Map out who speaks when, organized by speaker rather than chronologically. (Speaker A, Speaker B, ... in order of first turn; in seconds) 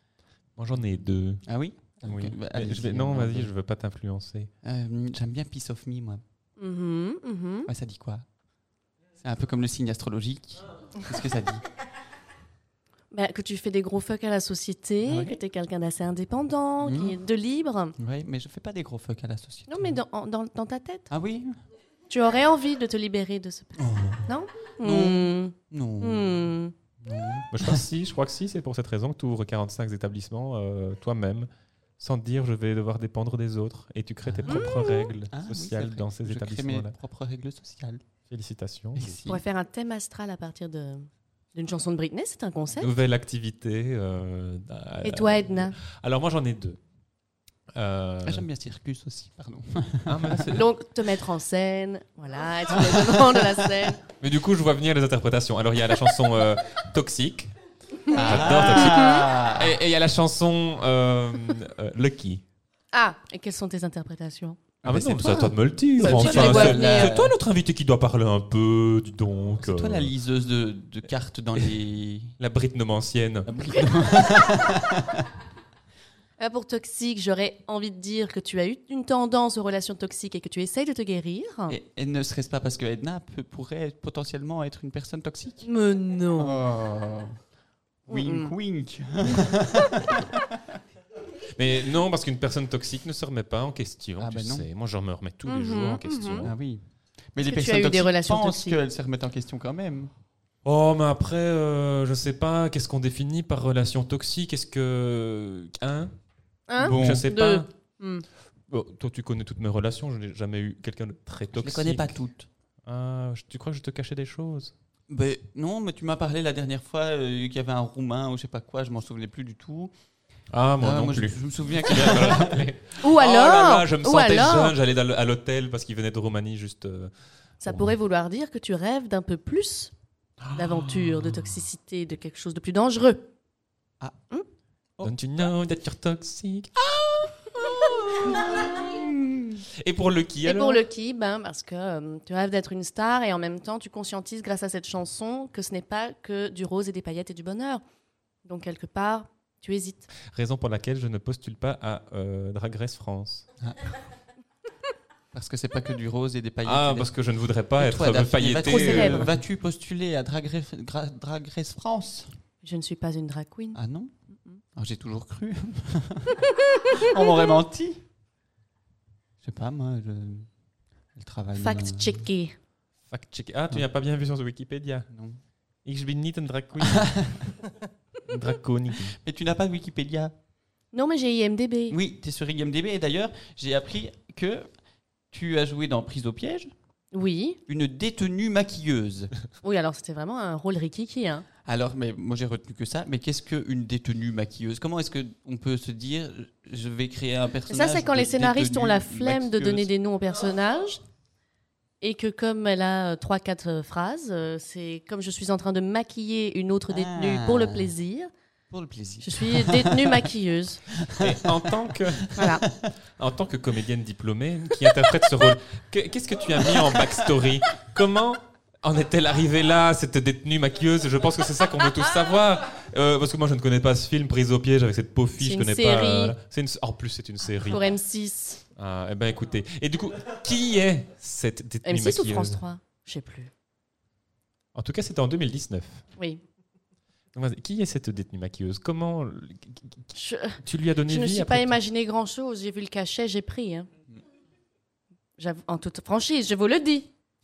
Speaker A: 0.6-1.4, 2.0-4.5, 27.5-36.9, 38.3-39.2, 42.8-46.8, 47.7-48.5, 50.1-50.7, 54.2-57.5, 58.1-62.4, 64.8-70.1, 72.4-73.5, 91.5-96.5, 100.6-106.1, 106.8-107.7, 108.7-112.2, 112.8-114.7, 120.5-127.9, 130.4-131.5, 135.0-138.7, 139.7-140.8, 150.2-153.5, 156.6-159.3, 173.1-175.1, 175.8-177.3, 178.3-179.2, 211.2-212.4, 213.2-227.8, 228.8-232.6, 234.7-236.0, 237.3-241.8
Speaker B: 1.4-3.5, 4.6-6.2, 7.7-8.2, 9.2-11.6, 15.1-15.4, 16.8-17.2, 18.0-20.0, 21.1-21.6, 23.8-26.5, 27.0-27.8, 34.3-34.7, 35.3-38.0, 39.0-39.4, 48.2-50.5, 52.9-53.2, 58.1-59.8, 64.8-67.3, 69.6-72.4, 73.5-75.2, 81.7-85.7, 86.4-87.4, 88.1-90.5, 94.2-94.7, 96.4-100.1, 106.8-107.3, 111.6-112.5, 115.1-119.9, 120.8-122.7, 138.1-139.6, 153.6-153.9, 155.3-157.1, 157.8-162.3, 163.7-164.1, 164.7-168.0, 169.4-170.5, 171.2-172.3, 175.1-175.4, 176.8-177.5, 179.1-180.3, 181.9-184.7, 185.3-186.7, 187.7-189.3, 191.7-199.9, 206.9-207.9, 208.7-210.2, 210.9-212.9, 216.8-217.1
Speaker C: 6.6-7.7, 13.1-17.9, 19.7-21.1, 22.1-26.7, 34.5-35.1, 39.2-42.9, 45.0-45.8, 50.5-54.0, 58.8-59.2, 62.9-64.6, 66.0-67.1, 76.4-81.7, 85.6-86.6, 88.1-88.5, 90.0-90.2, 95.5-96.5, 97.4-98.8, 106.7-108.2, 123.0-124.7, 127.6-129.9, 130.5-133.3, 140.4-147.8, 148.4-150.1, 158.7-159.3, 162.6-163.8, 166.5-167.2, 171.6-172.6, 180.9-182.0, 187.1-187.6, 189.6-191.4, 197.7-201.0, 202.0-208.3, 209.2-210.8, 212.3-212.6, 225.4-226.3, 227.6-228.6, 231.8-233.5, 236.2-236.4, 240.1-243.9, 245.4-247.1